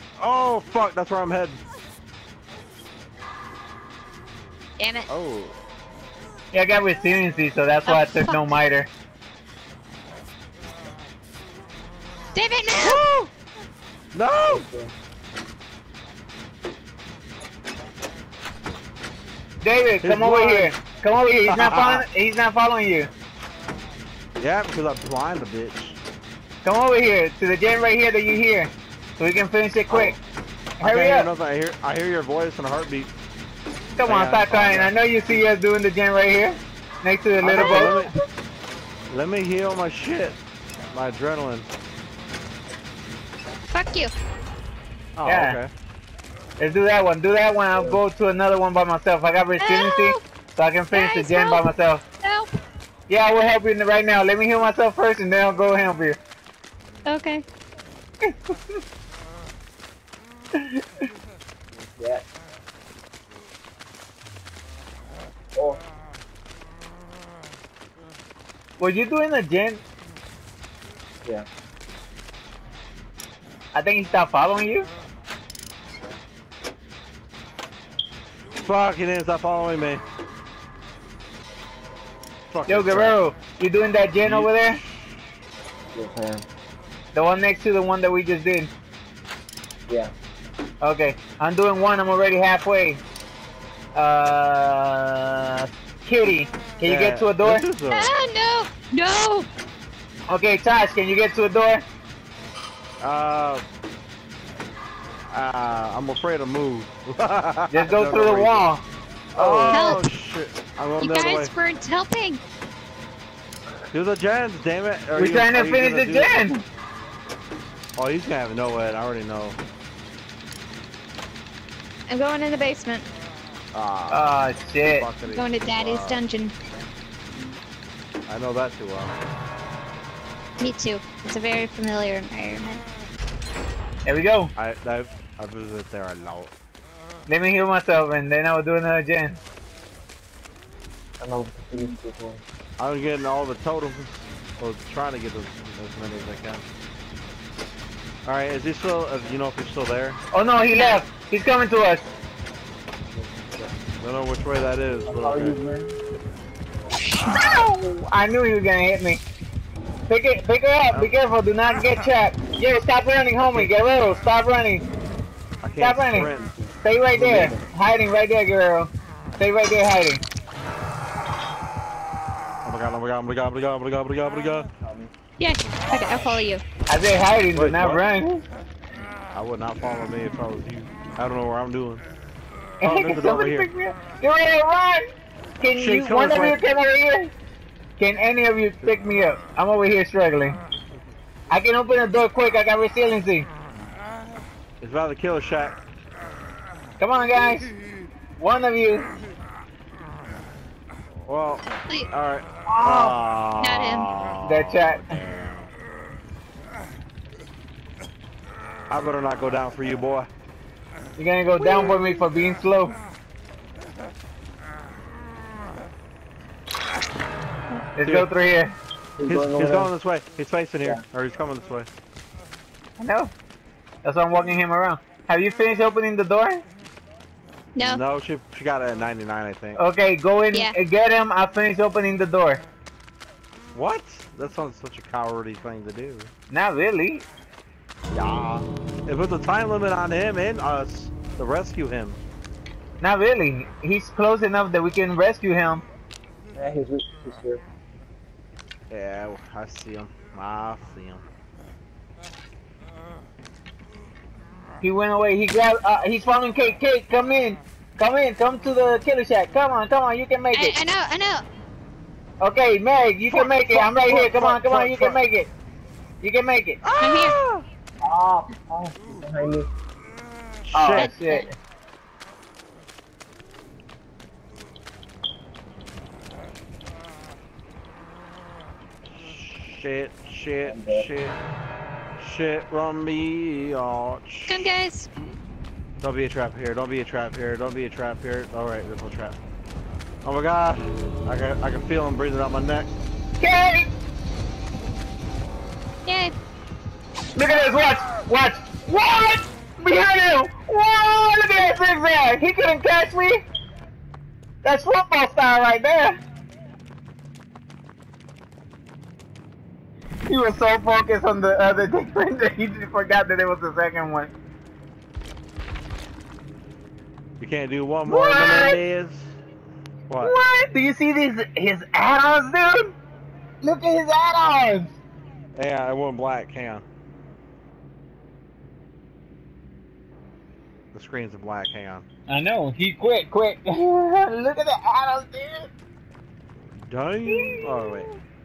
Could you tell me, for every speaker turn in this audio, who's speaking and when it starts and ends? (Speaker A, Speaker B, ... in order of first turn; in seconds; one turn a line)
Speaker A: 0.2-1.6
Speaker B: 4.8-5.1
Speaker A: 5.1-5.5
Speaker C: 6.5-8.9
Speaker B: 7.8-8.4
Speaker B: 12.3-13.0
Speaker A: 12.6-13.3
Speaker A: 14.1-14.7
Speaker D: 14.4-14.9
Speaker C: 19.6-23.1
Speaker A: 20.0-20.7
Speaker A: 21.5-22.1
Speaker A: 24.4-26.0
Speaker C: 26.6-30.2
Speaker A: 29.9-30.2
Speaker C: 30.8-31.3
Speaker A: 30.8-33.1
Speaker C: 34.0-38.1
Speaker A: 34.0-34.9
Speaker A: 37.4-38.1
Speaker B: 37.7-37.9
Speaker A: 39.1-40.4
Speaker A: 40.9-41.7
Speaker B: 43.7-44.1
Speaker A: 45.2-45.7
Speaker C: 45.2-45.6
Speaker C: 46.6-52.0
Speaker D: 47.7-48.0
Speaker B: 49.6-50.2
Speaker B: 50.9-51.7
Speaker B: 52.2-52.5
Speaker C: 53.1-56.2
Speaker B: 57.0-57.4
Speaker D: 61.7-62.2
Speaker D: 65.5-65.8
Speaker C: 68.8-69.8
Speaker C: 73.7-74.9
Speaker A: 78.6-80.0
Speaker A: 82.5-83.2
Speaker C: 82.7-84.8
Speaker A: 84.2-85.0
Speaker D: 85.9-86.4
Speaker C: 87.1-88.7
Speaker C: 90.8-93.0
Speaker C: 93.9-97.7
Speaker A: 96.8-98.1
Speaker B: 97.9-99.5
Speaker C: 100.3-101.8
Speaker A: 103.0-103.6
Speaker A: 105.3-108.7
Speaker C: 107.7-110.0
Speaker A: 109.3-111.5
Speaker B: 109.7-110.0
Speaker B: 111.0-112.4
Speaker A: 113.9-116.5
Speaker C: 115.1-116.6
Speaker A: 118.0-119.6
Speaker B: 122.1-123.1
Speaker A: 123.7-126.2
Speaker C: 124.1-125.1
Speaker B: 125.3-126.5
Speaker A: 128.3-129.2
Speaker B: 130.6-132.8
Speaker C: 134.1-134.5
Speaker A: 134.6-136.5
Speaker C: 137.3-139.4
Speaker D: 141.2-142.4
Speaker A: 142.8-146.6
Speaker A: 148.2-150.2
Speaker C: 150.3-152.1
Speaker B: 150.7-151.0
Speaker D: 153.1-153.7
Speaker A: 154.0-155.6
Speaker D: 155.1-156.0
Speaker C: 157.2-159.2
Speaker C: 160.1-164.8
Speaker A: 163.4-163.7
Speaker A: 165.6-166.5
Speaker C: 165.8-166.3
Speaker D: 166.6-167.6
Speaker C: 166.8-170.2
Speaker A: 172.6-174.7
Speaker D: 174.8-175.1
Speaker B: 175.4-176.6
Speaker A: 175.7-176.4
Speaker C: 176.9-178.4
Speaker A: 177.5-178.0
Speaker A: 179.3-182.0
Speaker A: 182.8-183.7
Speaker C: 182.8-185.1
Speaker C: 185.6-187.3
Speaker A: 185.6-186.6
Speaker C: 188.0-190.6
Speaker C: 191.5-193.5
Speaker A: 194.8-195.8
Speaker C: 197.0-197.7
Speaker C: 198.4-199.1
Speaker A: 201.2-205.7
Speaker C: 202.7-203.2
Speaker B: 203.6-204.1
Speaker C: 204.4-205.2
Speaker A: 208.9-210.3
Speaker C: 211.2-212.9
Speaker C: 217.9-218.8
Speaker D: 219.2-219.9
Speaker A: 219.2-221.9
Speaker C: 223.0-223.3
Speaker C: 224.0-226.6
Speaker B: 227.7-228.0
Speaker A: 227.8-229.8
Speaker C: 229.8-232.6
Speaker A: 233.7-236.3
Speaker C: 236.5-237.2
Speaker A: 238.1-242.2
Speaker C: 243.0-245.8
Speaker D: 246.6-247.6
Speaker A: 248.9-251.2
Speaker C: 254.8-260.8
Speaker B: 260.5-261.4
Speaker C: 262.4-265.5
Speaker A: 263.3-265.2
Speaker C: 266.2-266.8
Speaker A: 266.8-267.6
Speaker B: 267.0-267.4
Speaker D: 268.0-269.7
Speaker A: 270.6-271.1
Speaker C: 270.7-271.5
Speaker B: 270.9-271.5
Speaker A: 279.1-281.4
Speaker D: 280.6-281.1
Speaker A: 282.2-284.7
Speaker B: 284.5-285.1
Speaker A: 286.0-289.4
Speaker A: 290.2-292.9
Speaker C: 293.4-293.9
Speaker B: 296.1-296.3
Speaker C: 297.3-303.4
Speaker C: 304.6-306.2
Speaker C: 310.3-314.3
Speaker A: 317.4-319.4
Speaker C: 318.1-318.8
Speaker A: 320.1-320.3
Speaker C: 320.2-322.9
Speaker C: 323.6-324.9
Speaker A: 325.6-326.8
Speaker A: 330.9-332.1
Speaker C: 332.3-335.7
Speaker A: 336.9-338.1
Speaker C: 337.3-338.2